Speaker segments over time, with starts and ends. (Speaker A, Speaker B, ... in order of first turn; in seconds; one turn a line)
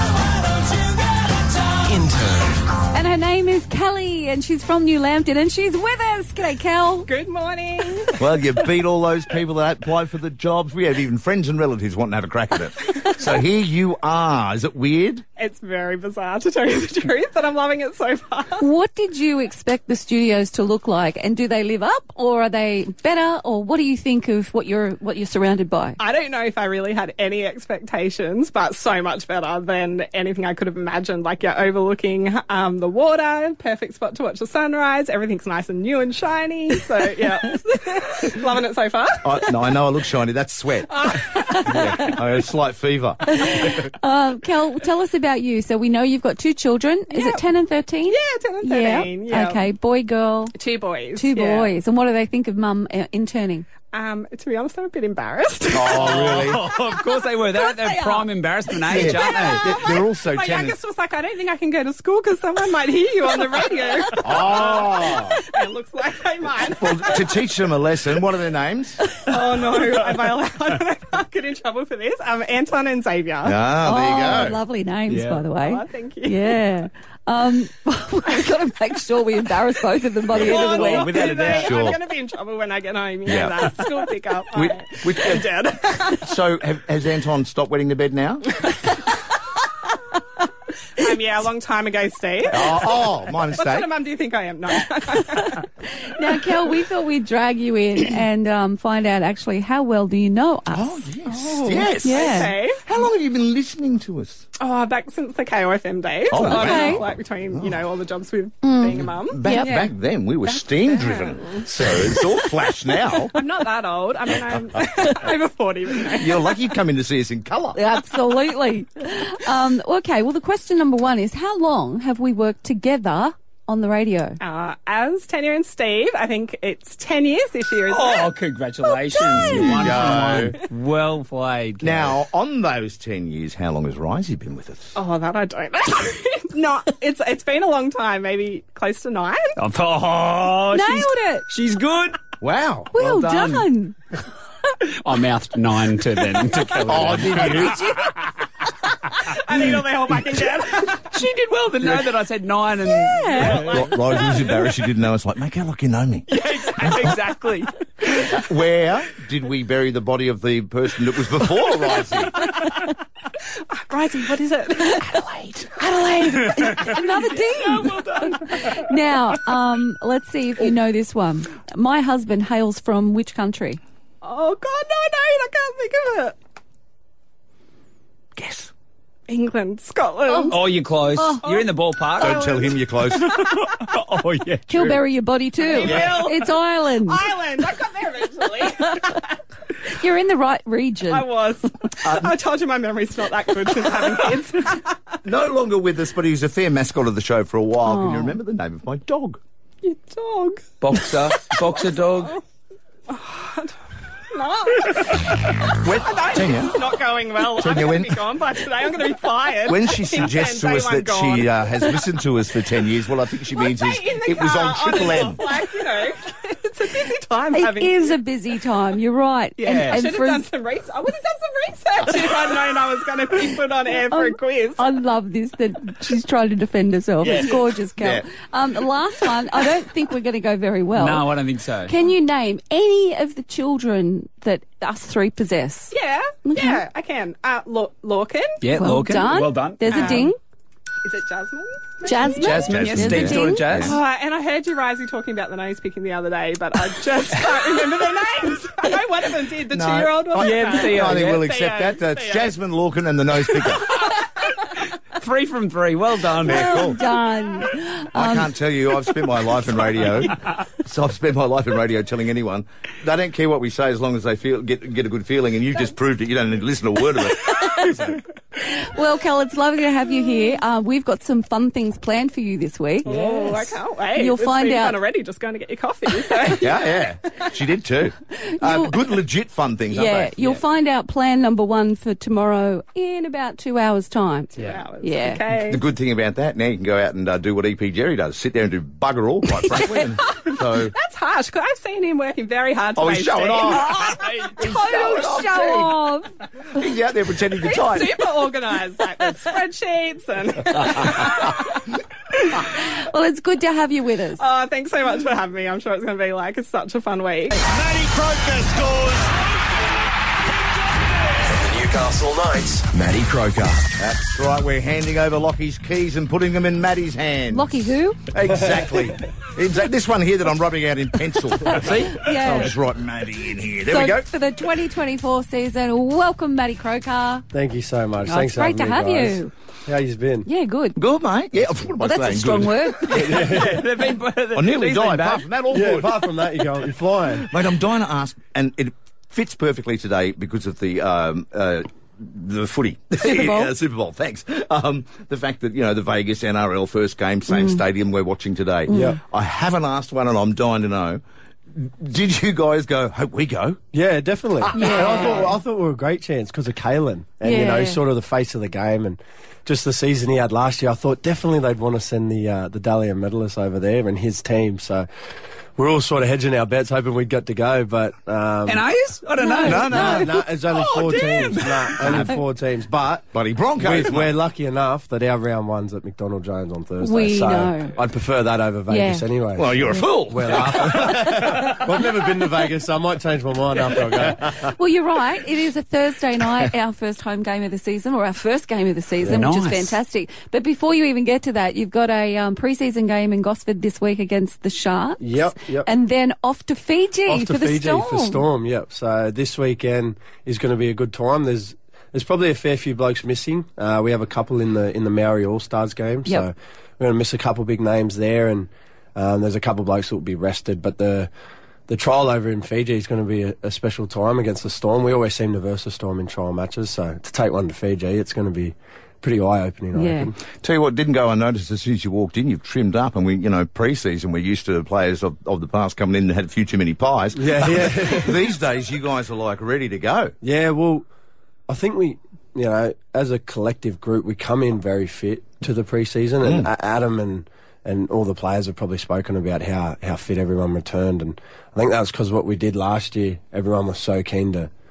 Speaker A: 0.8-1.7
Speaker B: 1.9-2.6
Speaker C: 2.9-7.1
Speaker D: 7.1-8.2
Speaker E: 8.2-15.2
Speaker D: 15.4-18.7
Speaker C: 18.6-26.0
Speaker D: 26.0-39.5
Speaker E: 39.2-43.6
Speaker D: 40.9-41.6
Speaker C: 43.3-50.5
Speaker D: 47.1-47.5
Speaker D: 48.1-49.6
Speaker D: 50.5-51.7
Speaker C: 51.1-53.7
Speaker D: 53.9-56.4
Speaker E: 55.7-56.6
Speaker F: 56.0-59.7
Speaker C: 57.9-58.2
Speaker E: 58.9-60.8
Speaker D: 59.1-67.3
Speaker E: 64.2-65.4
Speaker E: 66.8-69.0
Speaker D: 69.3-73.6
Speaker E: 73.4-74.6
Speaker C: 73.8-81.1
Speaker F: 75.1-75.4
Speaker D: 75.6-76.6
Speaker E: 80.3-80.8
Speaker D: 80.4-86.3
Speaker F: 80.5-81.7
Speaker E: 81.5-82.0
Speaker E: 83.2-83.7
Speaker E: 84.5-85.5
Speaker E: 86.2-88.5
Speaker D: 91.0-95.6
Speaker E: 92.5-93.9
Speaker C: 95.4-101.1
Speaker E: 100.7-104.5
Speaker D: 101.3-102.8
Speaker C: 102.0-102.5
Speaker D: 104.6-109.9
Speaker E: 106.3-107.8
Speaker C: 106.5-107.0
Speaker C: 108.6-109.8
Speaker E: 109.3-113.3
Speaker D: 110.5-112.4
Speaker D: 113.3-116.7
Speaker E: 114.5-115.1
Speaker E: 116.0-117.8
Speaker C: 117.8-124.4
Speaker D: 124.4-130.0
Speaker F: 127.9-132.2
Speaker E: 129.4-130.6
Speaker E: 131.8-134.9
Speaker D: 134.9-139.5
Speaker F: 139.6-142.2
Speaker C: 140.7-141.5
Speaker E: 142.4-142.9
Speaker C: 142.9-143.9
Speaker F: 142.9-143.7
Speaker F: 145.0-147.8
Speaker E: 146.9-147.8
Speaker D: 149.3-151.0
Speaker F: 151.1-153.9
Speaker C: 153.0-153.6
Speaker E: 153.4-156.3
Speaker D: 156.5-157.4
Speaker E: 156.8-157.2
Speaker F: 156.8-157.7
Speaker E: 158.1-162.3
Speaker D: 163.8-165.2
Speaker C: 165.8-173.8
Speaker D: 174.2-176.4
Speaker E: 178.4-178.7
Speaker D: 179.3-180.6
Speaker C: 180.3-180.6
Speaker F: 180.5-182.6
Speaker C: 181.2-181.5
Speaker E: 182.2-183.4
Speaker D: 182.2-182.5
Speaker F: 184.0-185.0
Speaker C: 184.7-187.2
Speaker D: 185.6-189.3
Speaker E: 185.8-186.3
Speaker C: 188.8-189.1
Speaker C: 189.9-191.3
Speaker D: 191.1-195.0
Speaker E: 192.0-192.3
Speaker E: 195.2-199.4
Speaker C: 197.8-198.4
Speaker D: 199.8-202.4
Speaker F: 200.8-202.4
Speaker D: 203.1-203.7
Speaker D: 204.3-205.3
Speaker E: 205.8-206.8
Speaker D: 205.9-212.0
Speaker E: 207.5-208.2
Speaker E: 209.7-215.5
Speaker D: 213.6-218.2
Speaker C: 217.5-220.5
Speaker D: 219.6-224.9
Speaker C: 224.1-231.3
Speaker F: 231.0-231.9
Speaker C: 231.9-235.9
Speaker D: 235.9-238.6
Speaker C: 236.4-236.8
Speaker F: 238.6-240.3
Speaker C: 238.8-240.4
Speaker D: 239.9-240.3
Speaker D: 241.0-242.7
Speaker C: 242.1-243.9
Speaker F: 242.4-244.0
Speaker E: 242.7-244.0
Speaker D: 243.8-252.5
Speaker E: 249.7-253.9
Speaker F: 250.4-251.5
Speaker F: 255.2-256.8
Speaker E: 256.4-257.0
Speaker C: 256.5-258.5
Speaker E: 258.1-268.2
Speaker C: 267.5-267.9
Speaker C: 268.6-275.0
Speaker D: 273.1-277.1
Speaker F: 273.1-273.5
Speaker E: 276.6-280.3
Speaker C: 278.4-279.0
Speaker C: 279.9-285.4
Speaker D: 284.6-285.8
Speaker E: 285.6-290.9
Speaker D: 290.7-295.1
Speaker E: 293.0-295.9
Speaker C: 293.8-296.3
Speaker E: 296.7-298.2
Speaker D: 297.6-301.8
Speaker C: 302.7-304.4
Speaker D: 304.4-307.6
Speaker A: 307.6-309.5
Speaker B: 311.5-313.9
Speaker E: 314.0-317.7
Speaker C: 317.5-318.2
Speaker E: 318.3-324.2
Speaker C: 321.7-322.7
Speaker F: 321.8-322.1
Speaker C: 323.9-327.5
Speaker G: 327.5-330.5
Speaker C: 328.3-329.5
Speaker C: 330.5-331.0
Speaker E: 331.0-333.4
Speaker C: 332.0-333.3
Speaker F: 332.3-335.4
Speaker G: 333.3-333.8
Speaker E: 334.5-336.2
Speaker G: 335.7-337.5
Speaker E: 337.4-351.2
Speaker C: 343.2-343.7
Speaker C: 347.5-347.8
Speaker C: 348.9-349.2
Speaker G: 348.9-349.2
Speaker E: 351.7-353.8
Speaker G: 353.9-365.1
Speaker E: 354.6-355.5
Speaker C: 354.7-355.5
Speaker C: 357.4-358.0
Speaker G: 365.8-368.9
Speaker F: 368.7-370.3
Speaker C: 369.4-370.2
Speaker E: 369.6-370.3
Speaker G: 369.9-373.3
Speaker F: 371.0-371.9
Speaker E: 373.3-374.4
Speaker G: 373.8-384.6
Speaker C: 377.0-378.0
Speaker C: 378.9-379.3
Speaker E: 379.6-381.4
Speaker C: 379.9-380.1
Speaker C: 384.6-398.4
Speaker F: 389.2-390.0
Speaker G: 395.2-395.9
Speaker G: 397.3-411.3
Speaker G: 411.9-420.4
Speaker C: 419.9-420.3
Speaker E: 420.6-430.4
Speaker G: 427.4-428.4
Speaker G: 430.4-431.1
Speaker G: 431.7-444.7
Speaker E: 436.4-436.7